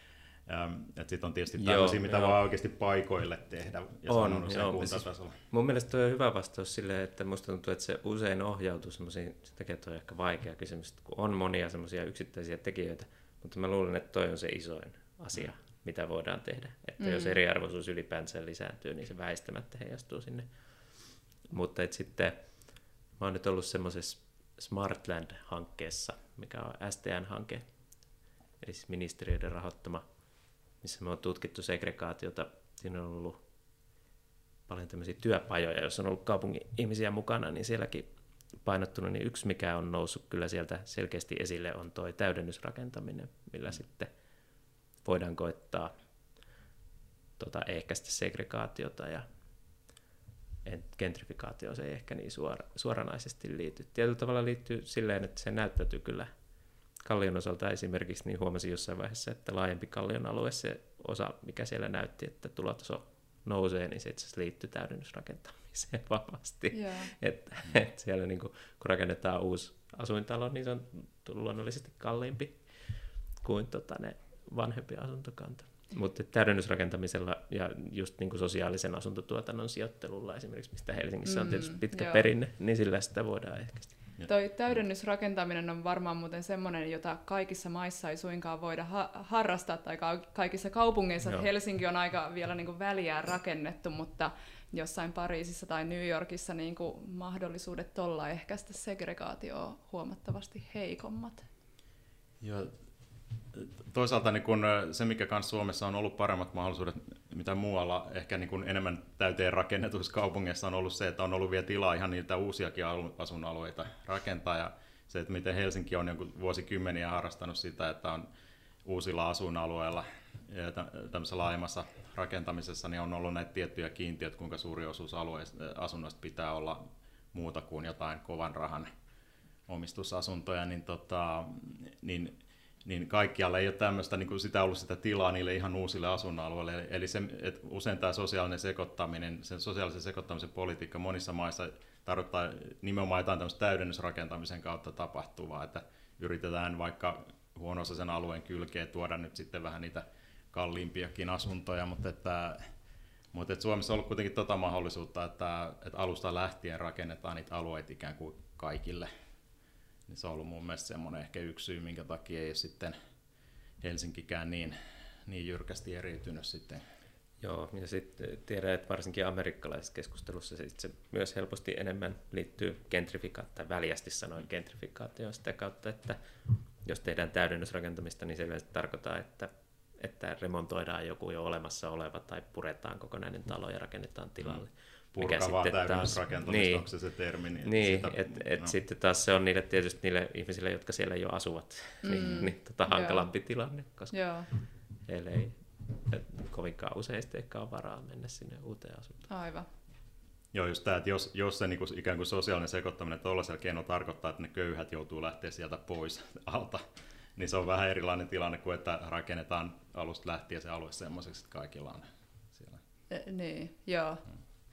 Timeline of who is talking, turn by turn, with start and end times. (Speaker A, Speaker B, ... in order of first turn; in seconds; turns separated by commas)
Speaker A: 0.5-5.4, Speaker B: 1.6-2.4, Speaker B: 4.1-20.5, Speaker C: 17.0-17.4, Speaker B: 21.5-22.4, Speaker B: 23.2-27.6, Speaker B: 28.6-30.0, Speaker B: 30.8-33.4, Speaker B: 34.7-38.1, Speaker B: 38.6-44.1, Speaker B: 45.0-45.9, Speaker B: 47.4-49.2, Speaker B: 50.6-56.3, Speaker B: 57.0-83.9, Speaker C: 66.7-67.1, Speaker C: 81.2-82.2, Speaker C: 84.3-101.5, Speaker A: 102.4-102.7, Speaker A: 103.5-118.3, Speaker A: 118.8-126.8, Speaker A: 127.3-128.9, Speaker A: 129.7-152.6, Speaker A: 153.3-159.1, Speaker A: 160.1-162.9, Speaker A: 163.8-164.8, Speaker A: 165.3-166.8, Speaker B: 167.4-176.2, Speaker B: 176.8-186.9, Speaker A: 184.4-188.8, Speaker B: 187.6-194.2, Speaker C: 192.0-193.3, Speaker C: 194.1-194.5, Speaker B: 195.1-199.2, Speaker C: 199.3-199.7, Speaker A: 200.5-206.8, Speaker A: 207.4-212.8, Speaker C: 213.1-214.2